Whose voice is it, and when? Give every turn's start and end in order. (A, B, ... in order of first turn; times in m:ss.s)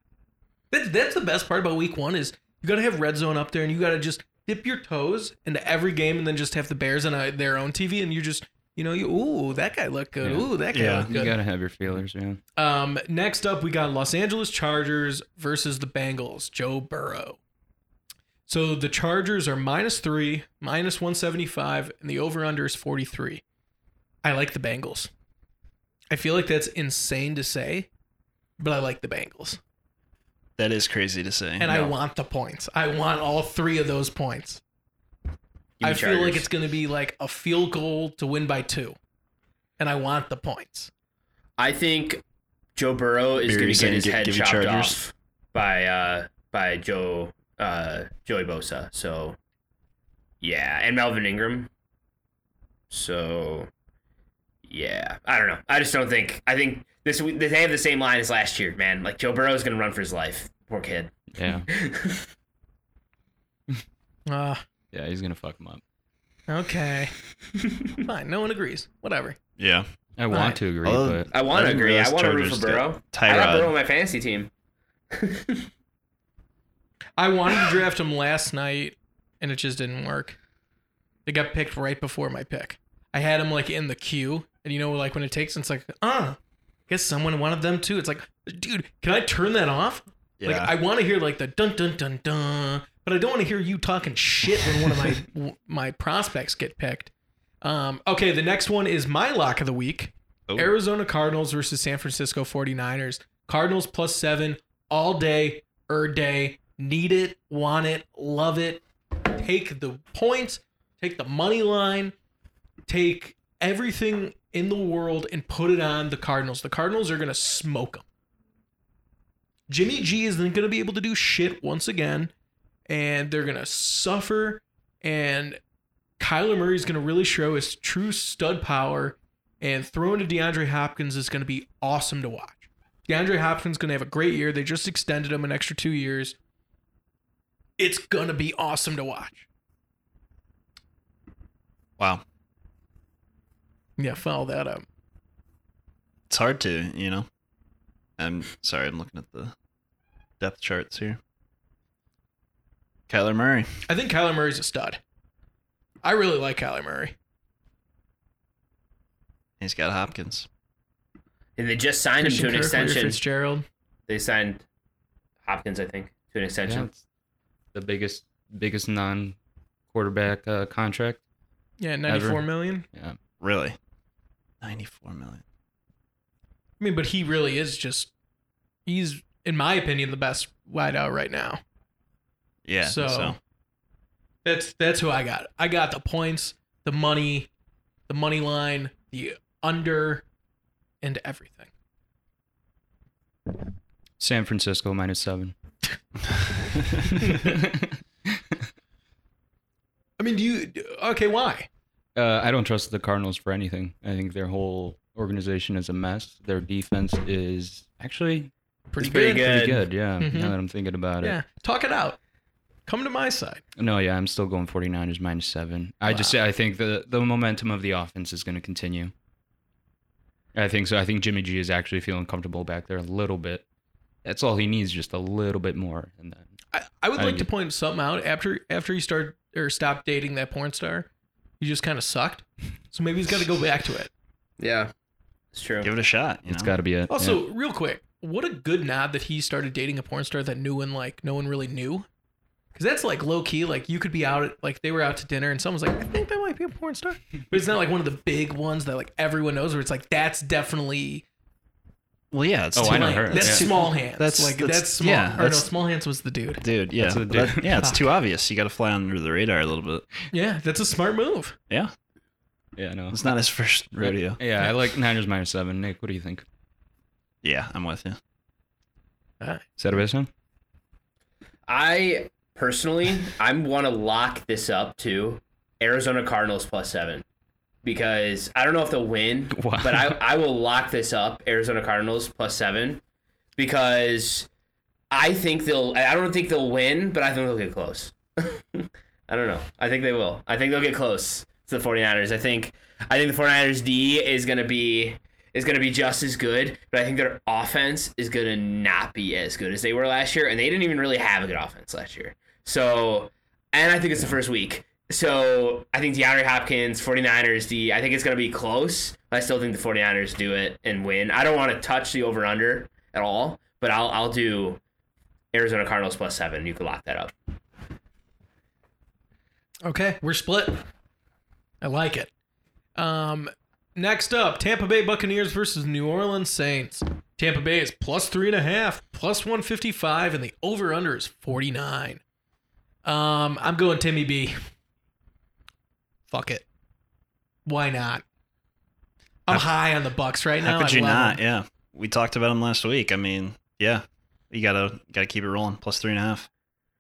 0:00.7-0:11.4 A
0:10.2-0:12.4 B
0:10.7-0:11.1 C
0:12.6-0:17.4 A
0:18.5-0:23.4 A
0:24.2-0:25.1 A
0:26.1-0:27.9 A
0:28.6-0:29.6 A
0:30.6-0:31.9 C
0:31.6-0:34.6 A
0:35.8-0:36.5 D
0:35.8-0:39.0 A
0:39.8-0:40.9 A
0:41.6-0:42.2 D
0:42.8-0:49.4 D
0:43.4-0:45.0 C
0:50.4-0:51.7 D
0:52.9-0:53.7 D
0:54.7-1:02.3 D
1:01.3-1:01.7 B
1:04.3-1:04.6 A
1:04.9-1:05.8 B
1:06.5-1:07.1 A
1:08.0-1:09.4 A
1:09.6-1:09.9 C
1:10.2-1:11.3 B
1:10.3-1:10.6 A
1:10.8-1:13.7 C
1:11.3-1:14.5 D
1:15.1-1:15.7 D
1:17.2-1:20.4 A
1:21.3-1:26.4 A
1:26.9-1:37.1 A
1:30.4-1:30.7 C
1:37.6-1:52.1 A
1:52.9-1:58.0 A
1:59.7-2:02.3 A
2:02.9-2:05.6 A
2:06.2-2:16.4 A
2:17.8-2:19.5 A
2:24.0-2:24.8 A
2:26.3-2:27.3 C
2:28.2-2:29.5 C
2:30.4-2:31.2 C
2:33.1-2:33.7 C
2:33.9-2:35.0 A
2:36.0-2:37.1 A
2:39.6-2:40.5 C
2:41.6-2:43.2 D
2:42.2-2:43.6 A
2:44.1-2:44.6 D
2:45.4-2:46.9 D
2:46.6-2:47.0 B
2:47.7-2:49.4 B
2:49.9-2:51.2 B
2:51.8-2:52.8 A
2:52.0-2:53.2 B
2:53.4-2:53.8 C
2:54.6-2:55.4 C
2:56.8-2:58.1 A
2:58.9-3:01.6 A
3:02.6-3:03.4 C
3:02.8-3:03.4 A
3:04.4-3:07.5 A
3:08.1-3:10.2 A
3:11.0-3:11.7 A
3:14.2-3:15.6 B
3:17.0-3:18.6 B
3:20.2-3:21.7 A
3:22.1-3:28.5 B
3:28.9-3:29.5 A
3:29.0-3:29.8 D
3:29.1-3:31.4 B
3:30.2-3:30.6 A
3:31.2-3:32.2 A
3:32.9-3:33.6 A
3:33.8-3:39.1 B
3:36.1-3:36.3 A
3:40.5-3:43.6 B
3:44.2-3:46.5 B
3:46.7-3:51.1 A
3:47.2-3:47.5 B
3:51.6-3:54.1 A
3:54.6-3:54.9 D
3:55.5-3:55.9 D
3:55.8-3:56.7 C
3:56.5-3:57.4 B
3:57.1-4:02.1 A
4:02.7-4:11.2 A
4:12.3-4:15.7 C
4:12.7-4:13.7 B
4:12.8-4:16.6 A
4:16.6-4:20.0 C
4:17.0-4:17.9 B
4:17.7-4:18.1 A
4:20.3-4:21.6 A
4:22.8-4:23.3 B
4:23.1-4:24.4 C
4:24.0-4:26.4 B
4:27.4-4:28.2 C
4:29.8-4:30.3 B
4:31.7-4:37.2 D
4:37.8-4:43.0 D
4:39.5-4:40.2 B
4:43.6-4:44.5 D
4:45.1-5:14.8 D
5:15.5-5:17.3 D
5:19.8-5:20.9 A
5:21.8-5:22.3 A
5:23.0-5:32.2 A
5:33.0-5:34.6 A
5:36.3-5:36.6 A
5:37.6-5:38.2 A
5:39.4-5:41.4 A
5:40.6-5:46.5 C